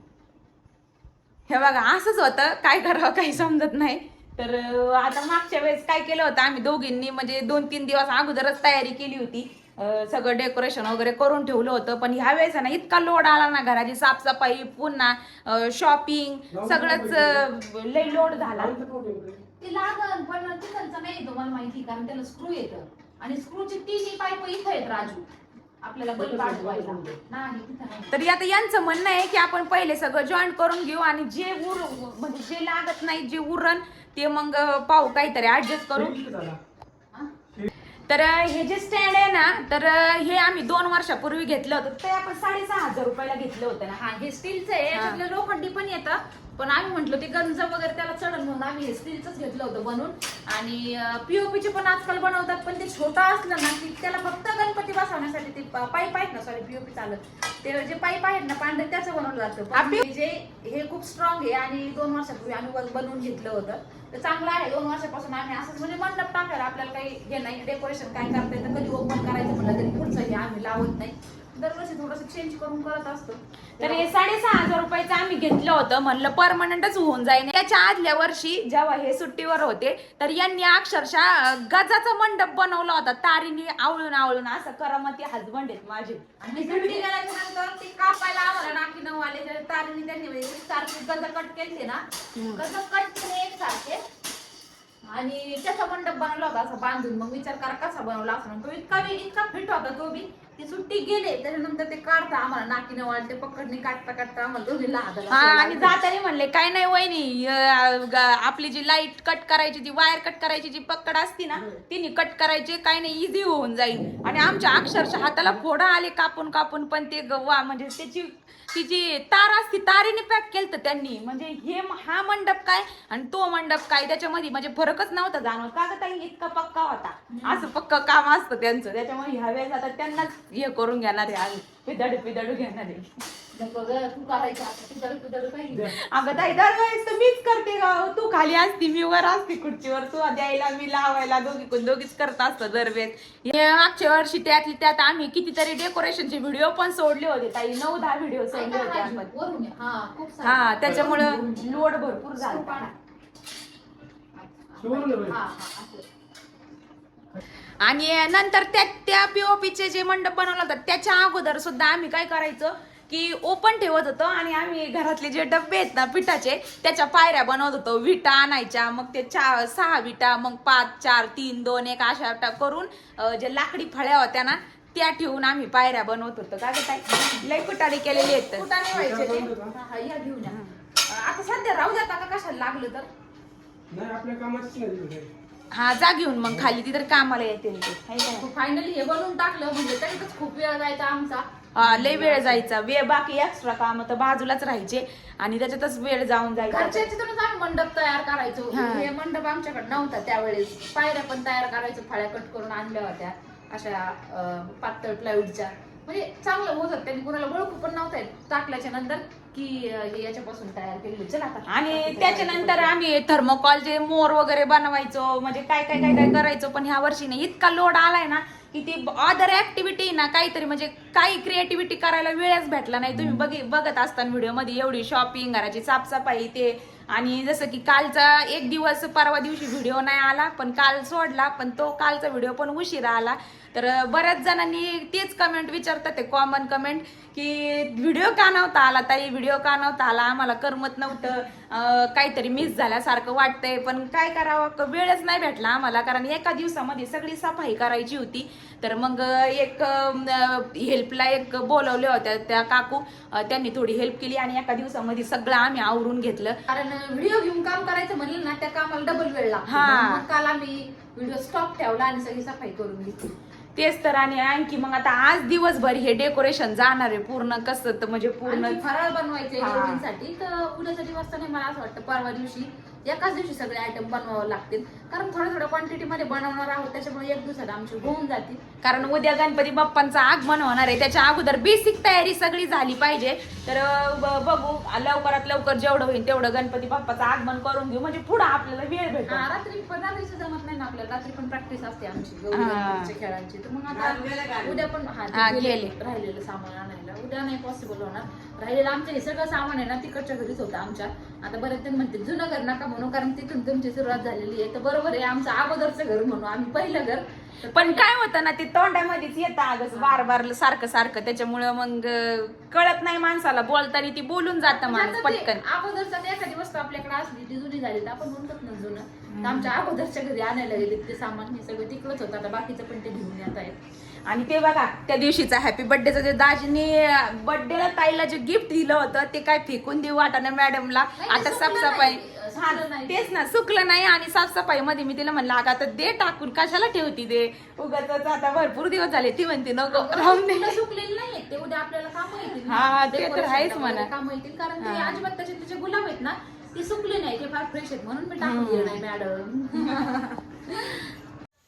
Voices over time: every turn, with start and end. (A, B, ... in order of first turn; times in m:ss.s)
0:01.5-0:18.7 A
0:16.5-0:17.4 B
0:18.4-0:19.4 B
0:19.6-0:25.3 C
0:25.8-0:28.1 C
0:26.2-0:27.2 B
0:28.1-0:36.2 A
0:35.9-0:36.6 B
0:38.1-0:44.0 A
0:44.0-1:14.0 C
0:44.9-0:45.2 A
0:59.7-1:00.0 A
1:13.8-1:27.0 A
1:26.4-1:32.0 C
1:32.4-1:32.6 A
1:32.5-1:34.0 C
1:35.1-1:46.0 C
1:45.3-2:13.1 A
2:07.3-2:07.7 C
2:13.5-2:15.9 C
2:15.7-2:16.6 B
2:16.1-2:29.3 A
2:28.5-2:31.8 C
2:30.4-2:32.8 A
2:30.8-2:31.1 B
2:32.4-2:32.9 C
2:34.4-2:36.0 C
2:34.8-2:35.4 B
2:37.8-2:58.7 A
2:57.1-2:57.4 C
2:58.1-3:03.1 C
2:58.9-2:59.7 B
3:00.5-3:00.8 A
3:03.9-3:05.3 B
3:05.7-3:08.4 A
3:08.4-3:12.6 C
3:11.7-3:17.0 A
3:16.7-3:33.0 C
3:18.7-3:19.1 A
3:31.7-4:16.6 A
4:16.7-4:23.3 C
4:19.7-4:20.2 A
4:23.8-4:28.8 A
4:28.4-4:38.6 C
4:29.6-4:30.0 A
4:38.8-4:49.4 A
4:49.3-5:08.0 C
4:52.5-4:53.1 A
4:53.9-4:55.9 A
5:07.7-5:15.6 A
5:09.9-5:10.3 C
5:14.7-5:23.8 C
5:19.3-5:19.7 A
5:24.3-5:40.8 A
5:31.2-5:33.3 C
5:39.9-5:50.9 C
5:42.6-5:44.1 A
5:44.8-5:45.2 A
5:48.4-5:49.0 A
5:49.8-5:50.2 A